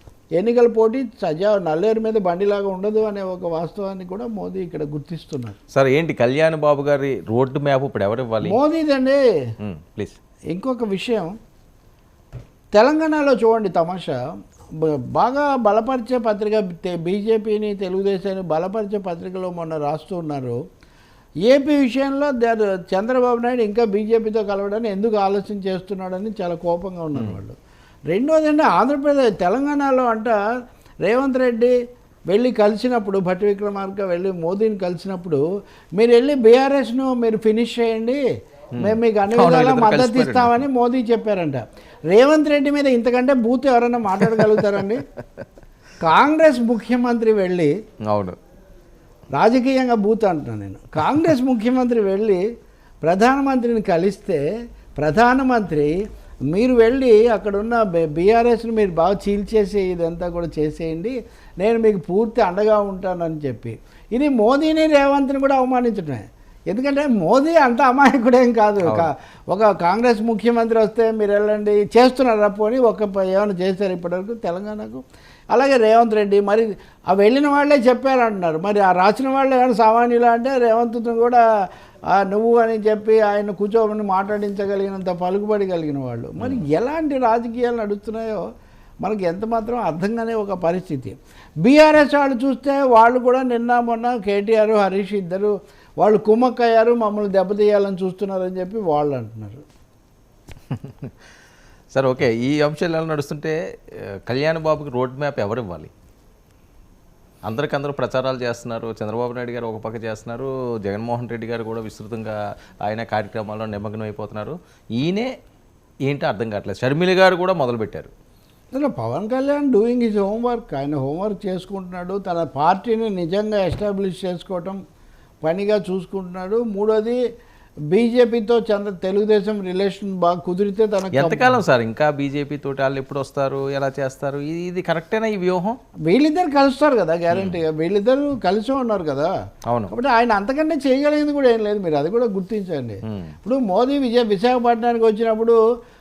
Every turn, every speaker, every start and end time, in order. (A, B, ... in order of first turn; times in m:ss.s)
0:00.4-0:05.6 A
0:05.7-0:08.6 B
0:08.4-0:09.2 A
0:09.6-0:10.2 B
0:10.5-0:11.4 A
0:12.7-0:20.6 A
0:21.5-0:27.6 A
0:28.1-0:30.4 A
0:31.0-0:31.7 A
0:32.3-0:35.4 A
0:36.0-0:38.2 A
0:38.7-0:40.6 B
0:38.8-0:45.0 A
0:44.2-0:44.8 B
0:46.0-0:47.7 A
0:48.1-0:48.4 B
0:49.3-0:52.4 A
0:53.0-0:54.4 A
0:55.0-0:56.0 A
0:56.5-1:21.4 A
1:08.8-1:09.1 B
1:22.1-1:28.4 A
1:29.0-1:39.6 A
1:40.7-1:41.1 B
1:41.9-1:45.9 B
1:47.4-1:55.3 B
1:56.0-1:58.1 B
1:58.7-2:04.8 A
2:05.4-2:07.2 A
2:07.9-2:11.6 A
2:11.1-2:15.8 B
2:16.1-2:19.3 A
2:17.3-2:17.6 B
2:19.9-2:25.6 A
2:23.1-2:23.3 B